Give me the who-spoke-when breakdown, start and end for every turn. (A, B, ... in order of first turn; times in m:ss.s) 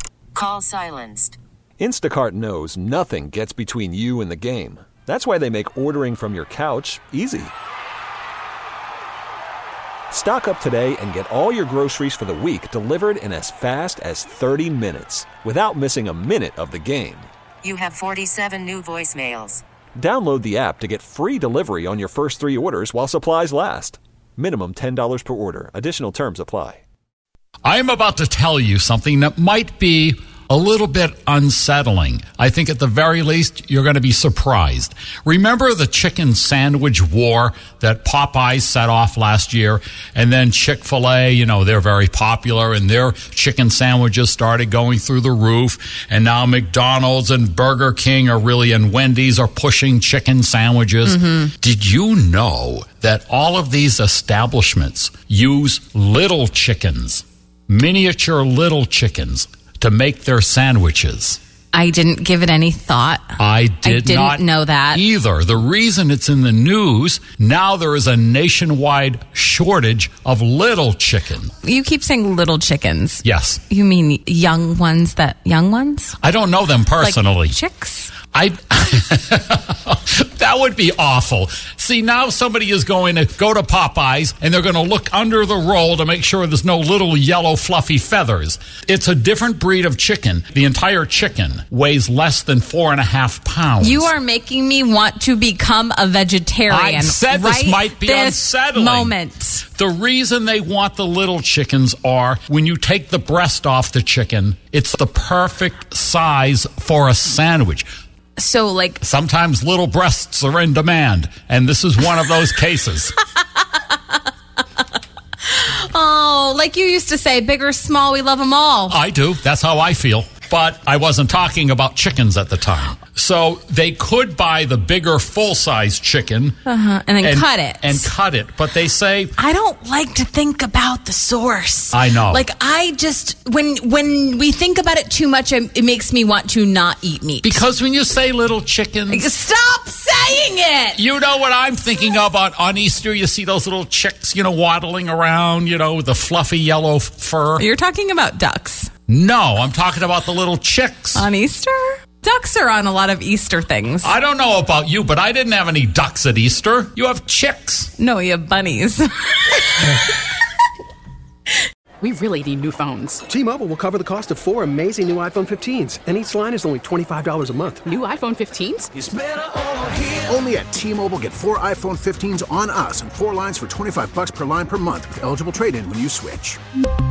0:00.4-0:01.4 A
0:01.8-0:07.5 B
0:10.1-0:17.3 B
0:17.6-0:19.6 A
0:20.0-0:26.8 B
0:27.6-1:01.4 C
1:01.7-1:05.0 D
1:03.4-1:11.5 C
1:11.6-1:16.2 D
1:13.2-1:13.6 C
1:16.2-1:17.6 C
1:17.0-1:18.1 D
1:18.3-1:34.1 C
1:33.8-1:39.6 D
1:36.7-1:39.1 C
1:39.7-1:47.9 C
1:48.4-1:49.0 D
1:49.0-1:53.1 C
1:55.5-1:59.0 D
1:58.9-2:06.6 C
2:06.6-2:08.1 D
2:07.2-2:09.3 C
2:09.4-2:17.6 D
2:11.9-2:12.4 C
2:17.4-2:19.2 C
2:19.1-2:21.0 D
2:21.0-2:27.6 C
2:27.6-2:28.9 D
2:29.1-2:31.3 C
2:31.2-2:34.2 D
2:34.0-2:37.9 C
2:38.0-2:39.9 D
2:42.0-2:43.2 E
2:43.3-2:47.8 F
2:47.8-2:48.9 E
2:49.0-2:56.6 G